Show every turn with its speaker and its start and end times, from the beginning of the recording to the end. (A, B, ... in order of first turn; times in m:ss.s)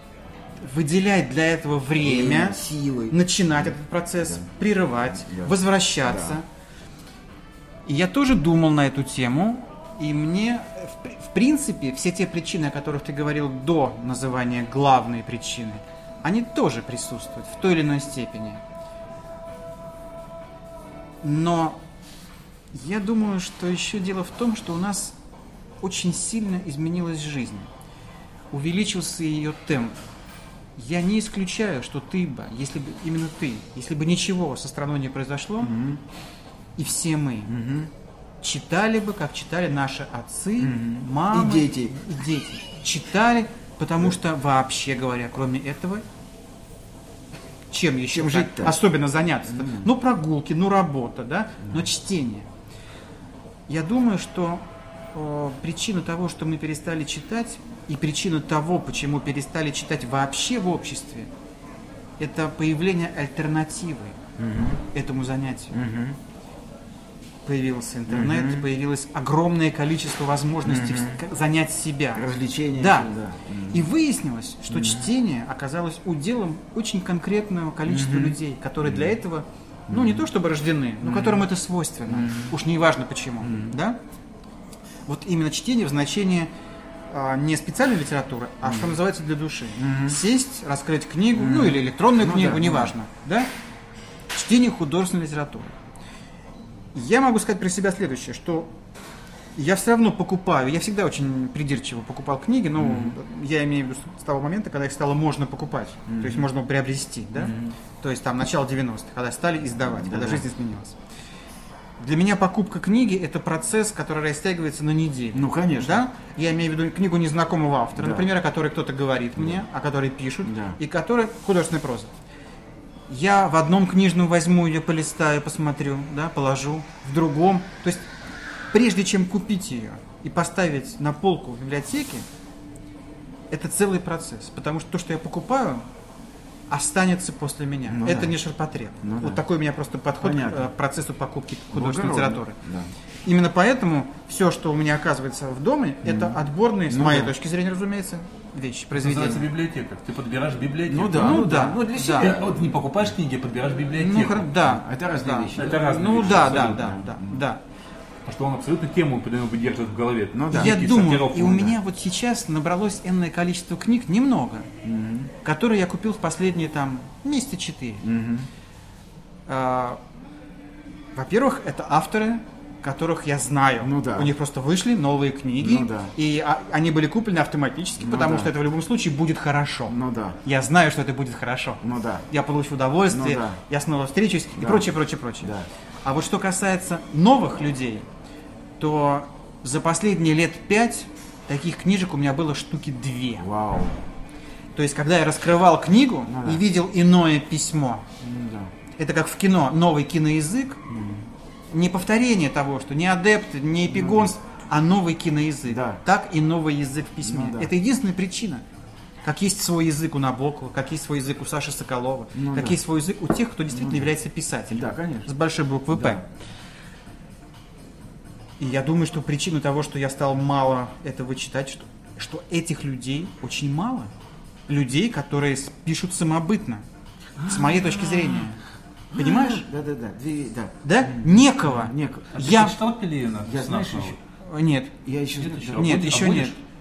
0:00.6-0:06.4 A
0:02.0-0:04.4 B
0:05.1-0:06.4 B
0:07.8-0:18.6 A
0:21.2-0:21.8 A
0:22.7-0:25.2 A
0:25.8-0:27.7 A
0:28.5-0:30.0 A
0:30.8-0:35.7 A
0:35.6-0:36.0 B
0:36.8-0:37.5 A
0:37.5-0:37.9 B
0:38.4-0:46.0 A
0:40.6-0:42.0 B
0:47.7-0:52.5 A
0:48.1-0:48.8 B
0:49.5-0:49.9 B
0:53.7-1:01.3 A
1:02.2-1:04.2 A
1:04.4-1:04.8 B
1:04.9-1:05.8 A
1:05.7-1:06.2 B
1:07.4-1:13.1 A
1:08.1-1:08.6 B
1:10.6-1:11.2 B
1:12.1-1:13.8 B
1:13.7-1:24.0 A
1:14.7-1:15.1 B
1:17.9-1:19.1 B
1:19.9-1:20.2 B
1:21.0-1:21.5 B
1:22.1-1:22.6 B
1:23.4-1:23.7 B
1:25.1-1:26.5 A
1:27.1-1:33.5 A
1:28.6-1:28.9 B
1:29.8-1:30.2 B
1:31.3-1:32.9 B
1:34.3-1:35.7 A
1:36.9-1:38.7 A
1:39.6-1:51.0 A
1:42.8-1:43.1 B
1:46.1-1:46.4 B
1:47.4-1:47.8 B
1:49.8-1:50.4 B
1:52.0-2:02.1 A
1:55.3-1:56.0 B
1:58.0-1:58.3 B
2:00.4-2:00.8 B
2:03.1-2:08.1 A
2:08.7-2:12.3 A
2:13.5-2:15.9 A
2:16.7-2:22.6 A
2:17.9-2:18.3 B
2:19.0-2:19.4 B
2:20.2-2:20.6 B
2:21.7-2:22.9 B
2:23.2-2:29.5 A
2:26.0-2:26.4 B
2:26.9-2:27.3 B
2:28.9-2:34.5 C
2:30.9-2:32.7 B
2:31.1-2:32.3 A
2:34.0-2:37.6 A
2:34.6-2:37.4 B
2:35.5-2:36.9 C
2:38.3-2:41.7 C
2:40.3-2:40.9 B
2:40.5-2:44.7 A
2:44.8-2:45.3 B
2:45.4-2:48.0 A
2:48.0-2:48.5 B
2:49.5-2:50.0 A
2:51.1-3:05.5 A
2:53.8-2:54.3 B
2:55.6-2:56.1 B
2:58.0-2:58.5 B
2:59.9-3:00.4 B
3:01.8-3:02.2 B
3:03.1-3:03.6 B
3:04.6-3:04.9 B
3:05.4-3:05.7 B
3:06.0-3:08.1 A
3:08.8-3:13.5 A
3:13.4-3:14.0 B
3:14.7-3:18.1 A
3:16.3-3:16.6 B
3:18.2-3:18.7 B
3:19.0-3:20.8 A
3:20.9-3:21.3 B
3:21.7-3:28.6 A
3:23.9-3:24.3 B
3:25.7-3:26.0 B
3:27.2-3:27.7 B
3:29.2-3:36.2 A
3:32.3-3:32.8 B
3:33.7-3:34.1 B
3:34.7-3:35.3 B
3:35.9-3:36.2 B
3:38.6-3:44.1 A
3:44.7-3:46.8 A
3:47.4-3:48.6 A
3:49.1-3:49.6 A
3:49.2-3:52.4 B
3:50.8-3:52.7 A
3:52.3-3:54.2 C
3:53.4-3:54.2 B
3:54.4-3:55.0 A
3:55.0-3:56.2 B
3:55.4-3:56.6 C
3:55.7-3:56.6 A